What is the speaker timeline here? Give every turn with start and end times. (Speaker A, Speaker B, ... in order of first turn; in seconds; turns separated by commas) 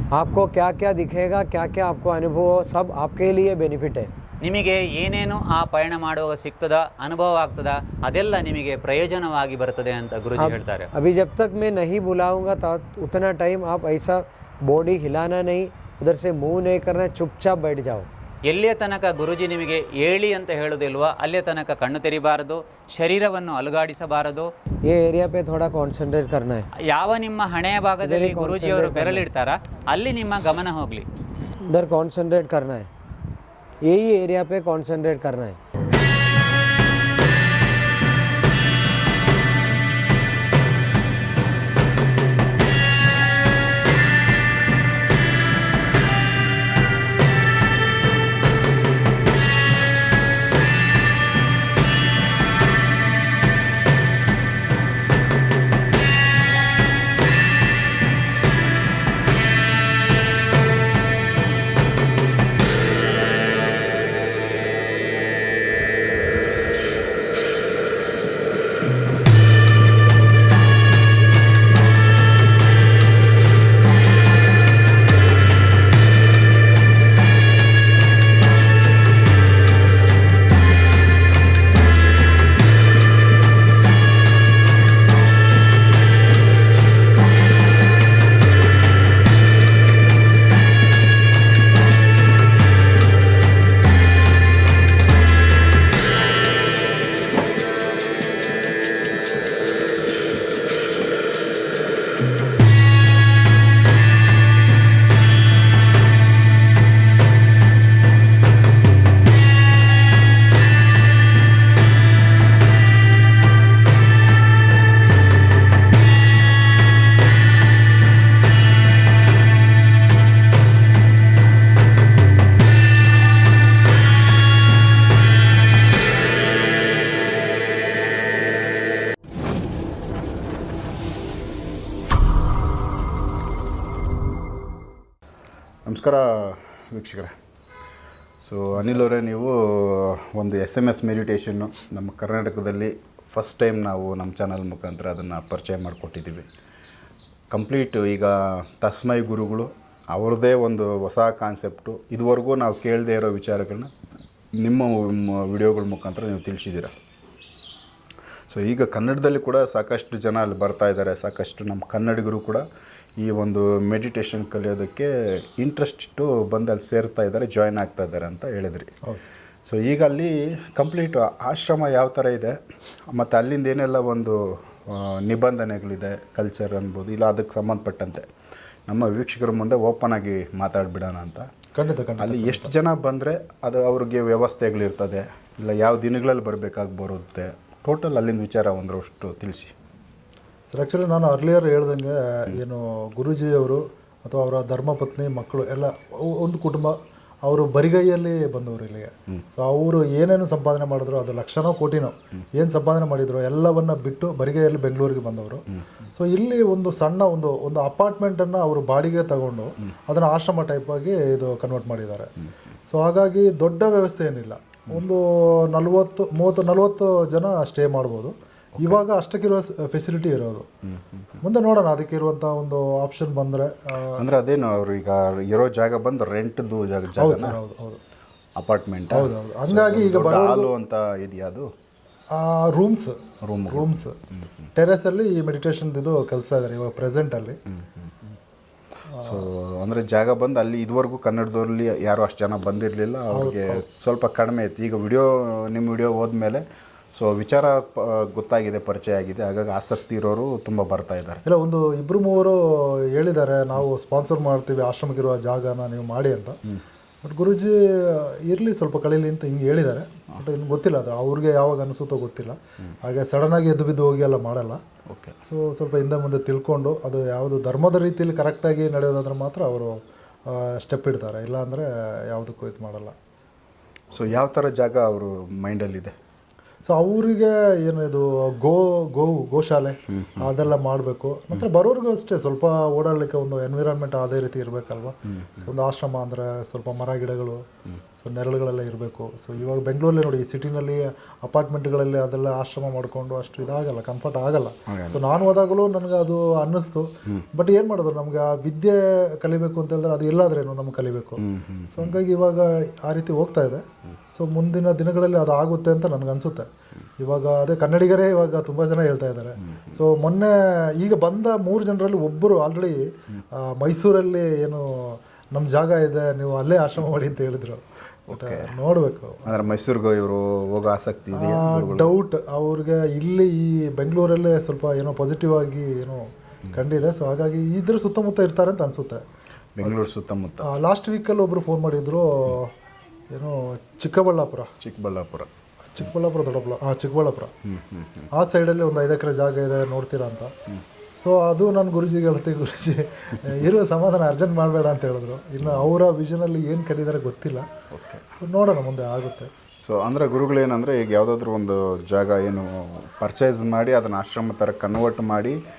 Speaker A: 0.1-4.1, Speaker B: 4.4-10.9, Speaker A: 10.4-18.1, Speaker B: 18.5-24.5, Speaker A: 24.9-26.7, Speaker B: 26.8-31.1, Speaker A: 28.0-29.3, Speaker A: 31.6-32.9, Speaker A: 33.8-35.6, Speaker C: 135.9-137.3, Speaker C: 138.4-146.5, Speaker C: 147.5-153.9, Speaker C: 154.6-156.9, Speaker C: 158.5-162.7, Speaker C: 163.2-168.9, Speaker D: 169.0-169.3, Speaker C: 169.7-172.6, Speaker C: 173.1-178.2, Speaker C: 178.9-181.5, Speaker D: 181.8-182.7, Speaker C: 182.2-189.7, Speaker D: 190.7-212.3, Speaker D: 212.9-220.7, Speaker C: 218.8-219.0, Speaker C: 220.9-221.3, Speaker D: 221.4-224.2, Speaker C: 224.2-227.6, Speaker D: 227.2-228.0, Speaker C: 228.6-231.7, Speaker D: 229.1-230.7, Speaker D: 232.3-233.2, Speaker C: 233.4-234.7, Speaker D: 233.7-234.2, Speaker D: 234.8-237.6, Speaker C: 237.7-238.3, Speaker D: 239.1-239.5, Speaker C: 239.2-251.4, Speaker D: 243.3-243.8, Speaker D: 251.5-256.6, Speaker D: 257.2-264.8, Speaker C: 265.1-265.4, Speaker D: 265.4-273.1, Speaker C: 274.1-276.1, Speaker D: 276.9-287.6, Speaker C: 280.1-280.5, Speaker C: 285.3-285.6, Speaker D: 288.2-306.7, Speaker C: 294.9-295.2, Speaker C: 301.4-302.2, Speaker D: 307.2-319.6, Speaker C: 318.3-318.7, Speaker C: 319.4-322.1, Speaker D: 321.3-329.2, Speaker C: 329.8-330.7, Speaker D: 330.6-332.7, Speaker D: 333.3-334.7, Speaker C: 334.8-335.5, Speaker D: 335.9-337.5, Speaker C: 337.7-338.3, Speaker D: 338.3-340.5, Speaker D: 341.2-347.6, Speaker C: 345.6-345.9, Speaker C: 347.9-348.2, Speaker D: 348.3-349.5, Speaker C: 349.8-355.6